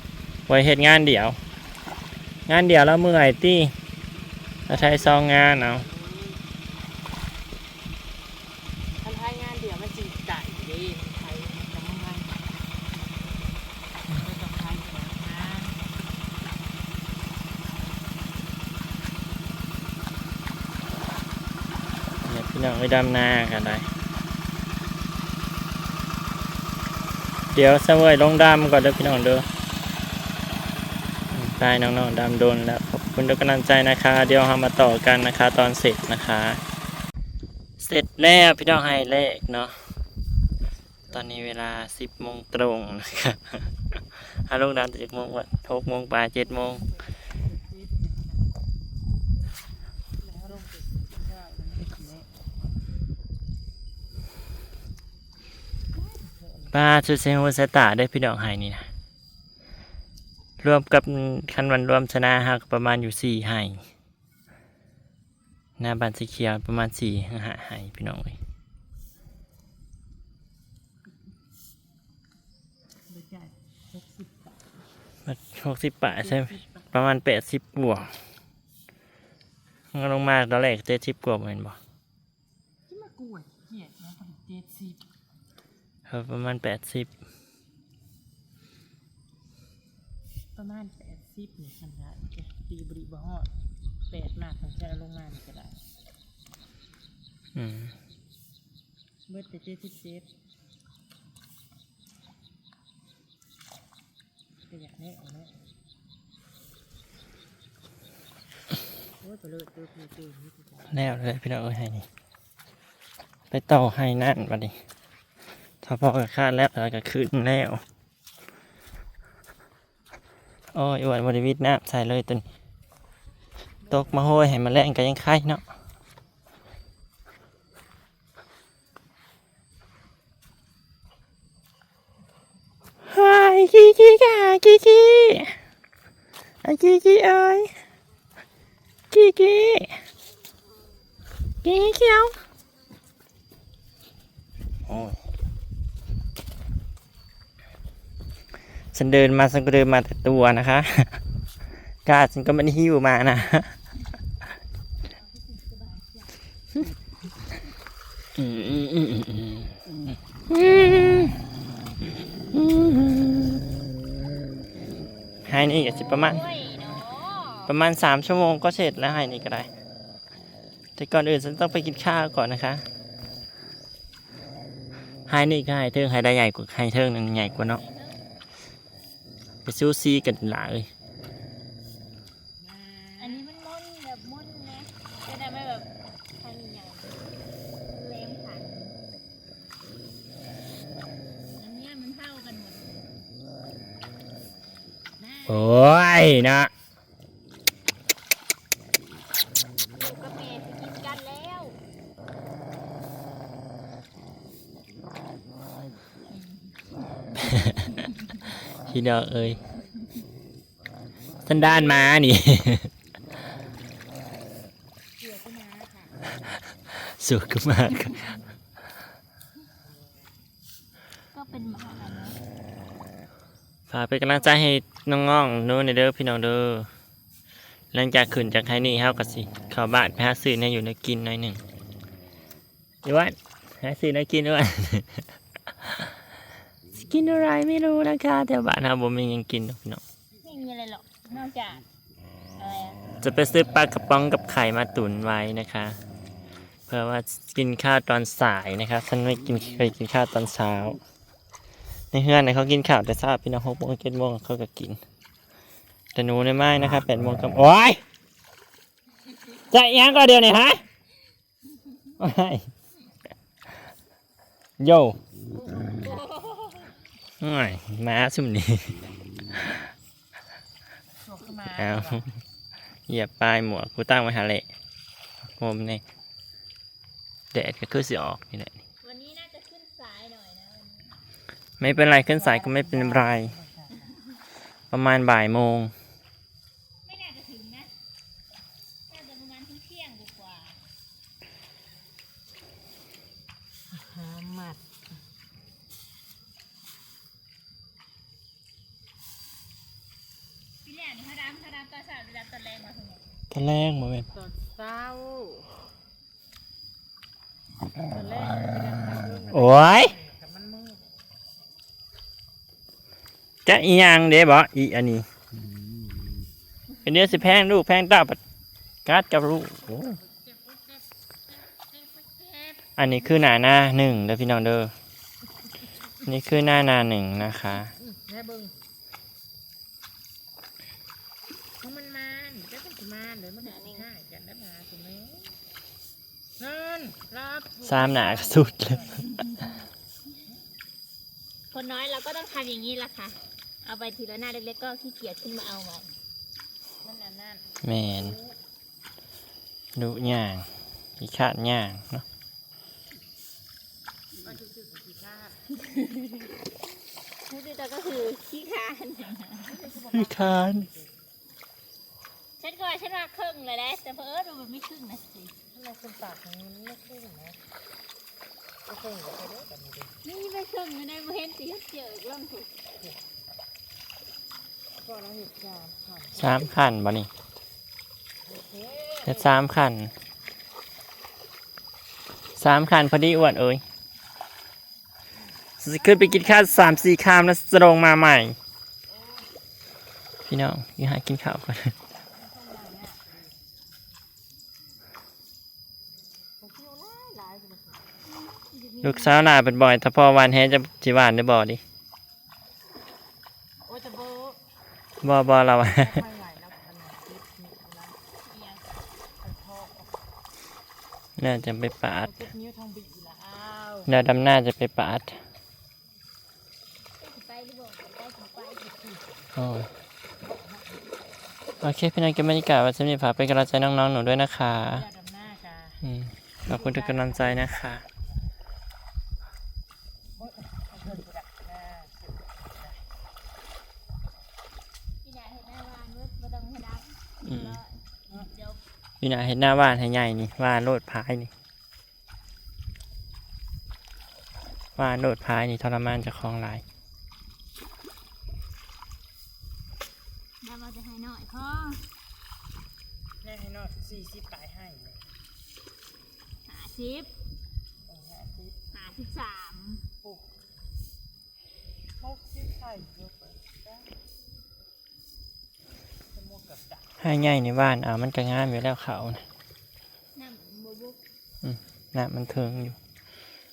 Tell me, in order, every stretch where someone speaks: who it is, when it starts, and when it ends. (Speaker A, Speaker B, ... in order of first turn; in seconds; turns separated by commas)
Speaker A: 0.5-1.4, Speaker A: 2.5-3.7, Speaker B: 4.7-6.4, Speaker A: 4.7-5.8, Speaker B: 9.0-12.8, Speaker B: 14.1-15.8, Speaker B: 17.7-18.1, Speaker A: 22.2-23.9, Speaker A: 27.5-29.5, Speaker A: 31.3-36.6, Speaker A: 37.8-39.8, Speaker A: 41.1-46.8, Speaker B: 46.8-48.5, Speaker B: 50.2-52.3, Speaker B: 56.0-56.8, Speaker A: 56.7-58.9, Speaker A: 60.6-63.8, Speaker A: 65.8-68.4, Speaker B: 73.1-74.7, Speaker A: 75.3-78.2, Speaker B: 76.1-76.9, Speaker A: 79.9-81.8, Speaker B: 82.9-85.0, Speaker A: 86.1-87.1, Speaker B: 90.6-93.5, Speaker B: 94.1-95.8, Speaker A: 97.5-98.0, Speaker B: 99.3-100.3, Speaker B: 104.7-105.6, Speaker B: 109.2-111.0, Speaker A: 110.9-112.1, Speaker A: 113.5-114.8, Speaker A: 115.8-117.8, Speaker A: 120.7-122.4, Speaker B: 123.9-124.3, Speaker A: 123.9-125.6, Speaker A: 133.1-135.6, Speaker A: 136.6-137.7, Speaker A: 139.1-139.9, Speaker A: 141.6-142.3, Speaker A: 144.9-145.2, Speaker A: 148.9-151.2, Speaker A: 152.1-153.8, Speaker C: 155.1-156.3, Speaker A: 158.4-161.4, Speaker A: 162.5-163.6, Speaker A: 165.5-166.4, Speaker C: 165.9-167.7, Speaker A: 167.7-169.7, Speaker A: 171.0-172.8, Speaker A: 175.3-177.8, Speaker C: 177.7-178.2, Speaker A: 179.7-180.9, Speaker B: 182.6-183.4, Speaker C: 183.2-187.2, Speaker C: 187.9-189.0, Speaker C: 191.6-193.1, Speaker B: 195.2-195.6, Speaker A: 195.5-196.7, Speaker C: 199.9-201.8, Speaker C: 206.3-206.8, Speaker A: 207.5-207.7, Speaker C: 207.7-208.3, Speaker A: 208.9-209.6, Speaker A: 211.5-212.9, Speaker C: 211.5-212.2, Speaker B: 215.2-216.2, Speaker A: 216.9-218.4, Speaker B: 219.8-220.3, Speaker C: 221.3-222.4, Speaker A: 223.9-226.9, Speaker A: 227.9-231.6, Speaker A: 233.1-235.2, Speaker A: 235.8-236.1, Speaker A: 236.9-240.0, Speaker C: 240.4-241.9, Speaker C: 242.6-243.0, Speaker A: 243.2-246.0, Speaker A: 246.9-251.0, Speaker A: 252.1-255.0, Speaker A: 256.1-258.0, Speaker A: 259.7-260.8, Speaker A: 262.2-262.7, Speaker A: 264.8-265.2, Speaker C: 265.9-266.9, Speaker A: 267.4-269.1, Speaker B: 271.2-272.3, Speaker A: 271.8-272.3, Speaker A: 273.1-274.7, Speaker A: 275.6-276.0, Speaker A: 277.5-278.7, Speaker C: 279.0-281.2, Speaker A: 281.8-283.5, Speaker B: 282.2-284.1, Speaker A: 284.9-285.9, Speaker C: 287.1-287.9, Speaker C: 289.1-290.8, Speaker B: 293.9-294.8, Speaker C: 300.8-303.2, Speaker A: 303.5-304.3, Speaker B: 304.3-305.8, Speaker B: 308.0-311.1, Speaker A: 309.5-310.1, Speaker A: 313.6-315.3, Speaker A: 317.0-318.4, Speaker A: 319.1-320.2, Speaker B: 320.0-321.1, Speaker B: 321.7-322.9, Speaker A: 323.0-324.9, Speaker A: 326.2-327.9, Speaker B: 328.0-328.8, Speaker B: 331.8-335.6, Speaker C: 333.6-334.1, Speaker B: 336.6-339.3, Speaker A: 337.8-339.2, Speaker C: 339.3-339.6, Speaker C: 341.7-346.2, Speaker B: 347.0-348.6, Speaker A: 347.8-348.4, Speaker A: 350.0-350.7, Speaker A: 351.2-352.2, Speaker B: 354.4-355.7, Speaker C: 355.9-356.5, Speaker C: 357.5-359.9, Speaker B: 359.7-361.1, Speaker A: 360.1-360.9, Speaker C: 362.6-365.6, Speaker B: 365.7-367.6, Speaker B: 368.9-370.1, Speaker C: 370.2-372.7, Speaker B: 372.9-373.2, Speaker B: 375.0-376.8, Speaker A: 376.4-377.3, Speaker B: 378.5-379.6, Speaker A: 379.2-380.1, Speaker A: 382.6-383.8, Speaker A: 385.8-388.6, Speaker B: 386.0-387.0, Speaker B: 389.1-389.5, Speaker A: 390.5-391.9, Speaker B: 392.3-393.5, Speaker B: 396.6-398.1, Speaker C: 398.2-399.6, Speaker A: 399.0-401.8, Speaker B: 403.9-404.6, Speaker A: 405.2-406.2, Speaker B: 405.9-408.2, Speaker C: 408.5-408.9, Speaker B: 409.4-410.2, Speaker A: 411.4-412.5, Speaker B: 412.2-414.1, Speaker A: 414.1-415.4, Speaker C: 417.2-418.8, Speaker B: 418.6-419.5, Speaker A: 419.6-419.9, Speaker B: 420.4-421.3, Speaker A: 421.8-425.1, Speaker B: 424.9-426.0, Speaker A: 426.0-428.1, Speaker B: 426.6-427.7, Speaker B: 430.4-433.0, Speaker C: 435.2-438.8, Speaker A: 437.4-437.8, Speaker A: 439.2-441.5, Speaker A: 445.0-446.8, Speaker C: 450.6-452.1, Speaker B: 453.4-455.2, Speaker C: 456.7-457.3, Speaker B: 458.0-458.8, Speaker C: 458.9-460.1, Speaker B: 460.2-460.5, Speaker B: 462.2-464.2, Speaker B: 466.3-467.2, Speaker A: 467.2-469.4, Speaker C: 470.4-471.2, Speaker A: 471.6-473.0